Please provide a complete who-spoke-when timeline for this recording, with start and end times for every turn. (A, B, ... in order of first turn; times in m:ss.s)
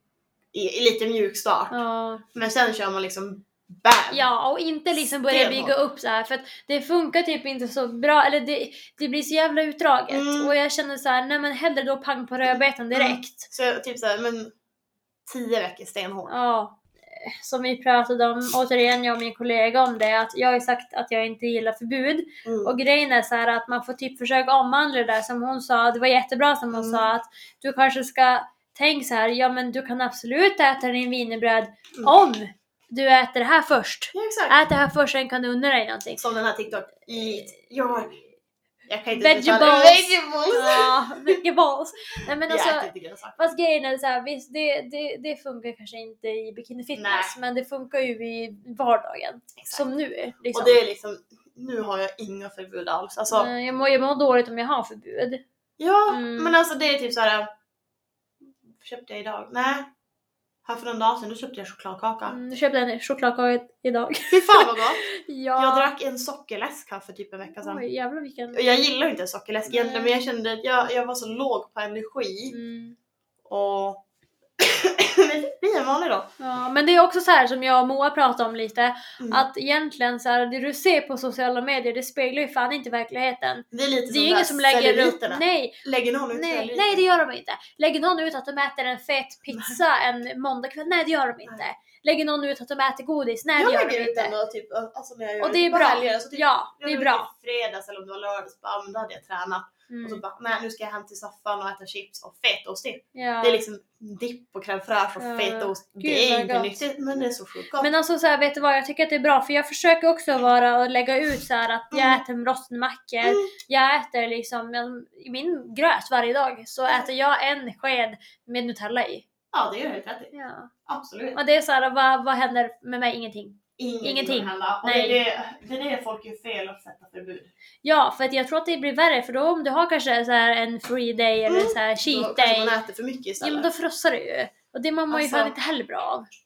0:00.5-0:01.8 A
0:01.7-0:02.2 B
0:02.3-0:04.2 A
0:04.1-0:13.5 B
0:04.9-0:05.8 A
0:10.1-0:10.6 A
0:12.9-0:14.5 A
0:15.3-0:16.3 A
0:16.3-0:36.2 B
0:22.4-0:22.7 A
0:26.7-0:27.1 A
0:34.1-0:34.6 A
0:36.2-0:38.2 A
0:38.9-0:41.4 A
0:39.1-0:50.8 B
0:42.5-0:43.4 A
0:47.0-0:47.3 A
0:49.6-0:49.8 A
0:50.5-0:53.5 A
0:53.3-0:55.4 B
0:55.8-0:57.5 A
0:56.1-0:56.6 B
0:58.8-0:59.9 A
1:00.6-1:02.4 A
1:02.3-1:05.9 B
1:04.3-1:05.0 A
1:05.6-1:07.8 A
1:07.6-1:08.6 B
1:08.5-1:12.6 A
1:09.7-1:10.2 B
1:12.5-1:13.0 B
1:13.4-1:14.0 A
1:14.6-1:16.3 A
1:16.4-1:34.3 B
1:19.2-1:19.5 A
1:23.7-1:27.0 A
1:29.5-1:29.8 A
1:33.6-1:47.9 A
1:35.4-1:37.3 B
1:39.9-1:40.2 B
1:43.2-1:43.6 B
1:45.2-1:46.8 B
1:47.8-1:59.3 B
1:51.9-1:52.2 A
1:53.2-1:53.5 A
1:59.5-2:00.3 A
2:00.3-2:00.7 B
2:00.9-2:01.4 A
2:01.4-2:05.2 B
2:03.8-2:07.5 A
2:07.8-2:12.7 B
2:11.5-2:13.7 A
2:13.4-2:16.3 B
2:15.1-2:15.5 A